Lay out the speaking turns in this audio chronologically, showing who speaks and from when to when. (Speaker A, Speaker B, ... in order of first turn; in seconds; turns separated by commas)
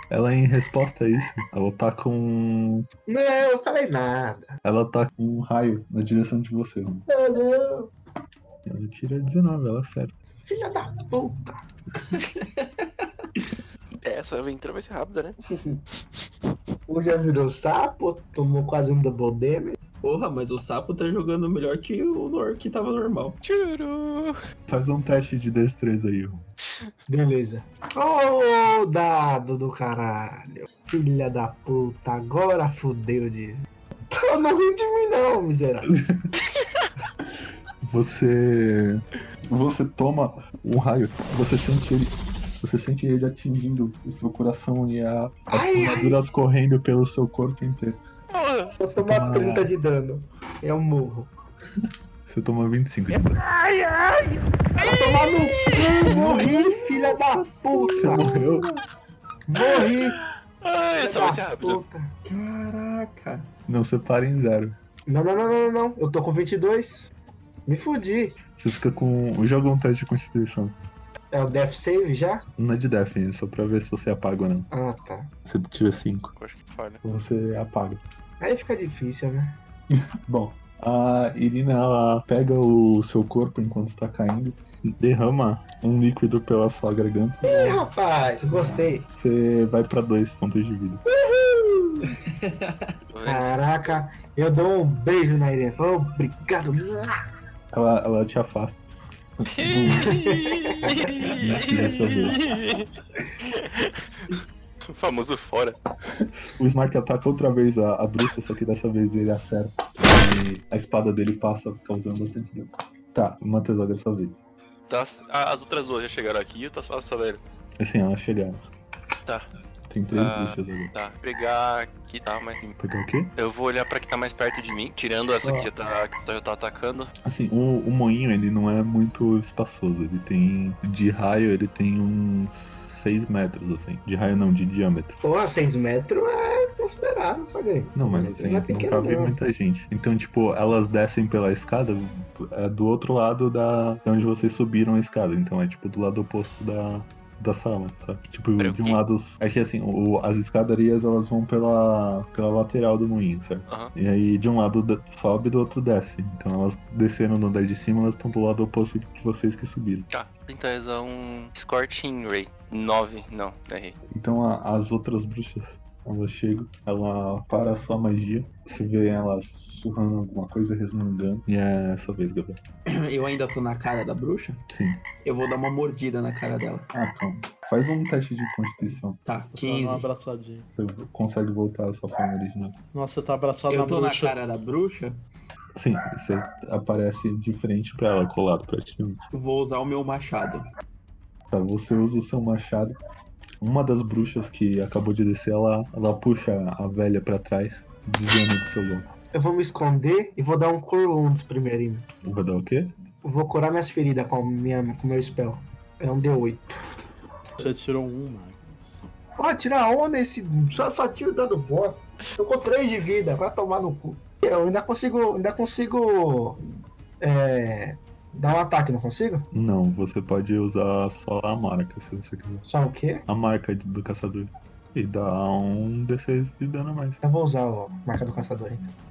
Speaker A: 0.1-2.9, Speaker B: 3.1-4.5, Speaker A: 4.6-7.0, Speaker B: 7.1-7.9, Speaker A: 8.7-10.1, Speaker B: 10.4-11.6, Speaker C: 12.1-12.8, Speaker D: 14.0-15.4, Speaker B: 15.4-15.8, Speaker B: 16.9-19.8, Speaker C: 20.0-23.4, Speaker D: 23.4-24.4, Speaker A: 24.7-26.4, Speaker B: 27.1-35.9, Speaker A: 35.9-36.1, Speaker A: 37.9-48.0, Speaker B: 45.5-46.2, Speaker D: 48.4-48.8, Speaker B: 48.8-51.3, Speaker A: 48.9-49.7, Speaker A: 51.8-53.4, Speaker D: 53.1-54.4, Speaker B: 54.8-58.2, Speaker C: 54.9-55.2, Speaker C: 56.0-58.8, Speaker A: 58.0-58.7, Speaker B: 59.5-60.1, Speaker D: 59.9-61.8, Speaker B: 60.9-62.1, Speaker C: 62.2-63.5, Speaker A: 63.7-64.8, Speaker B: 65.1-67.1, Speaker B: 67.7-68.4, Speaker A: 68.5-70.7, Speaker B: 71.3-72.4, Speaker A: 72.6-74.7, Speaker B: 74.7-75.3, Speaker A: 75.5-76.3, Speaker D: 76.3-77.0, Speaker A: 77.0-78.0, Speaker B: 78.4-79.6, Speaker A: 79.9-87.9, Speaker B: 87.4-89.0, Speaker C: 87.5-88.8, Speaker A: 89.1-91.0, Speaker B: 91.1-92.0, Speaker C: 92.2-92.9, Speaker D: 93.1-93.6, Speaker B: 93.2-97.2, Speaker A: 97.7-98.8, Speaker A: 99.4-100.4, Speaker D: 99.4-102.9, Speaker B: 100.1-101.0, Speaker A: 101.4-102.4, Speaker D: 103.4-104.3, Speaker D: 104.9-105.8, Speaker A: 106.2-114.4, Speaker D: 114.9-117.4, Speaker A: 117.8-118.6, Speaker A: 119.9-120.9, Speaker D: 120.1-122.7, Speaker A: 122.8-123.3, Speaker D: 123.4-127.1, Speaker A: 125.4-125.7, Speaker A: 127.2-135.2, Speaker B: 135.2-139.4, Speaker A: 137.9-160.1, Speaker D: 148.6-149.0, Speaker D: 160.1-163.9, Speaker A: 164.1-172.6, Speaker C: 172.9-174.6, Speaker A: 174.7-175.0, Speaker C: 175.2-176.9, Speaker A: 176.9-179.2, Speaker C: 179.2-180.1, Speaker E: 179.5-180.7, Speaker A: 180.8-182.7, Speaker E: 182.9-184.4, Speaker C: 183.7-185.2, Speaker A: 185.7-189.2, Speaker C: 189.3-190.6, Speaker A: 191.5-192.9, Speaker A: 193.6-199.1, Speaker B: 199.3-202.1, Speaker A: 202.2-202.9, Speaker B: 203.2-206.7, Speaker E: 207.6-209.1, Speaker B: 209.4-216.6, Speaker B: 217.2-219.5, Speaker A: 219.5-222.7, Speaker B: 222.7-223.2, Speaker A: 223.3-227.2, Speaker B: 227.2-228.8